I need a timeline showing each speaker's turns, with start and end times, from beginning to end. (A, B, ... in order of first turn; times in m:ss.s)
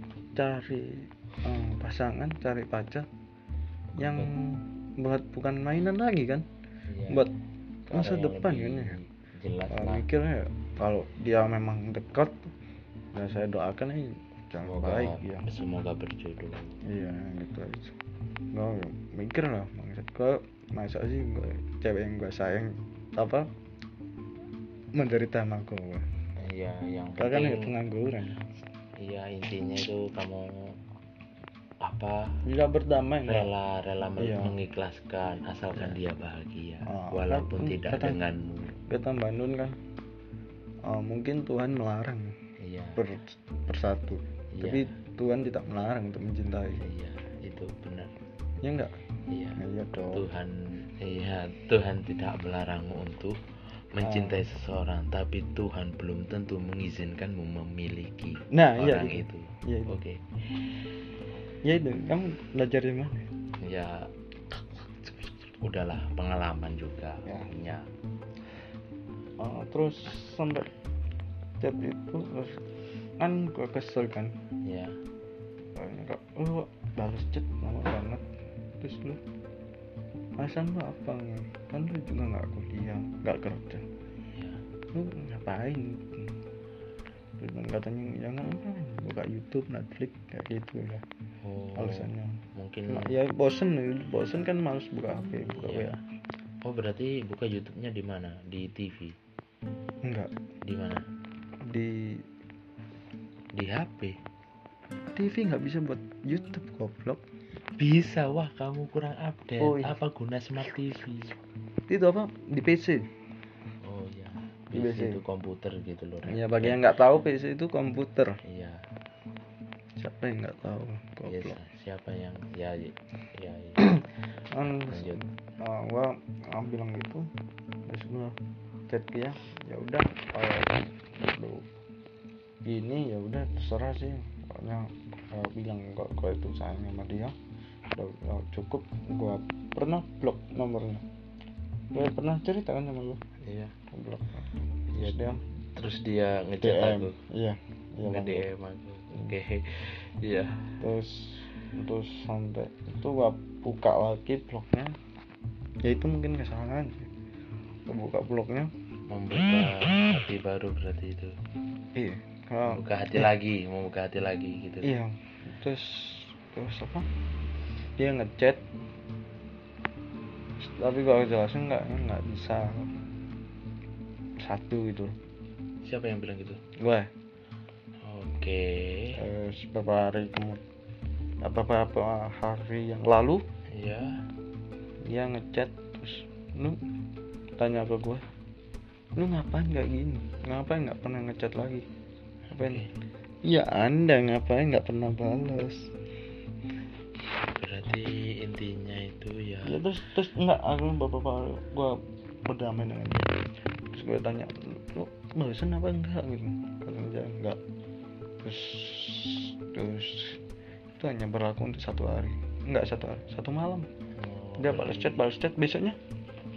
0:00.3-0:03.1 A
0:03.9-0:04.3 B
0:04.0-0:06.4 A
0:06.9-0:07.3 B
0:07.1-0:07.3 A
0:07.9-0:10.1 B
0:07.9-0:09.0 A
0:09.7-0:12.5 A
0:13.1-0:15.4 A
0:14.6-0:16.8 B
0:16.8-0:18.0 A
0:18.5-0:23.5 A
0:24.9-0:26.1 A
0:26.4-0:27.7 B
0:27.2-0:28.4 A
0:29.0-0:30.8 B
0:31.8-0:32.4 B
0:32.4-0:33.5 A
0:33.2-0:38.8 B
0:34.2-0:34.6 A
0:36.8-0:38.2 A
0:38.9-0:39.8 A
0:40.8-0:42.4 A
0:42.6-0:43.0 B
0:43.0-0:46.8 A
0:44.5-0:44.9 B
0:46.8-0:48.1 B
0:48.6-0:49.0 A
0:49.3-0:49.6 B
0:49.6-0:50.2 A
0:50.1-0:53.4 B
0:53.9-1:00.2 B
0:54.0-0:54.4 A
0:58.5-1:00.0 A
1:01.6-1:03.3 A
1:03.6-1:07.9 B
1:07.2-1:07.5 A
1:09.4-1:10.7 A
1:11.6-1:12.6 A
1:13.2-1:14.3 A
1:14.6-1:15.0 B
1:15.7-1:18.2 A
1:18.8-1:19.2 A
1:20.4-1:23.8 A
1:24.3-1:24.6 B
1:24.9-1:26.3 A
1:27.4-1:31.0 A
1:31.4-1:33.2 B
1:31.7-1:36.0 A
1:35.6-1:36.0 B
1:36.6-1:39.2 B
1:40.0-1:40.3 A
1:40.6-1:41.0 B
1:41.6-1:42.2 A
1:43.5-1:44.2 B
1:45.1-1:47.2 A
1:47.8-1:51.4 B
1:49.6-1:50.0 A
1:51.9-1:53.1 A
1:53.8-1:56.8 B
1:54.7-1:55.2 A
1:56.2-1:58.4 A
1:58.4-1:58.8 B
2:00.0-2:01.6 A
2:01.2-2:03.9 B
2:03.8-2:07.3 A
2:04.9-2:05.2 B
2:07.8-2:08.4 A
2:08.9-2:11.7 A
2:12.6-2:17.4 A
2:17.9-2:21.0 A
2:21.9-2:23.2 A
2:23.4-2:23.7 B
2:23.9-2:25.4 A
2:24.9-2:27.2 B
2:26.6-2:28.5 A
2:28.0-2:30.7 B
2:30.8-2:35.0 A
2:35.8-2:37.1 A
2:37.9-2:38.7 A
2:39.1-2:41.4 B
2:41.9-2:43.3 A
2:42.6-2:44.9 B
2:44.8-2:47.1 A
2:48.0-2:48.6 A
2:50.6-2:52.9 A
2:54.4-2:55.2 A
2:55.8-2:56.6 B
2:56.8-2:57.1 A
2:58.0-2:59.2 B
2:59.2-3:00.6 A
3:01.4-3:03.4 A
3:03.7-3:04.2 B
3:05.0-3:06.8 A
3:07.6-3:08.2 A
3:09.2-3:11.8 A
3:12.5-3:12.9 B
3:12.5-3:12.8 A
3:13.4-3:15.9 A
3:17.5-3:19.8 B
3:19.6-3:23.3 A
3:23.9-3:27.6 A
3:28.4-3:30.4 A
3:31.0-3:33.9 A
3:34.2-3:35.2 B
3:34.6-3:36.0 A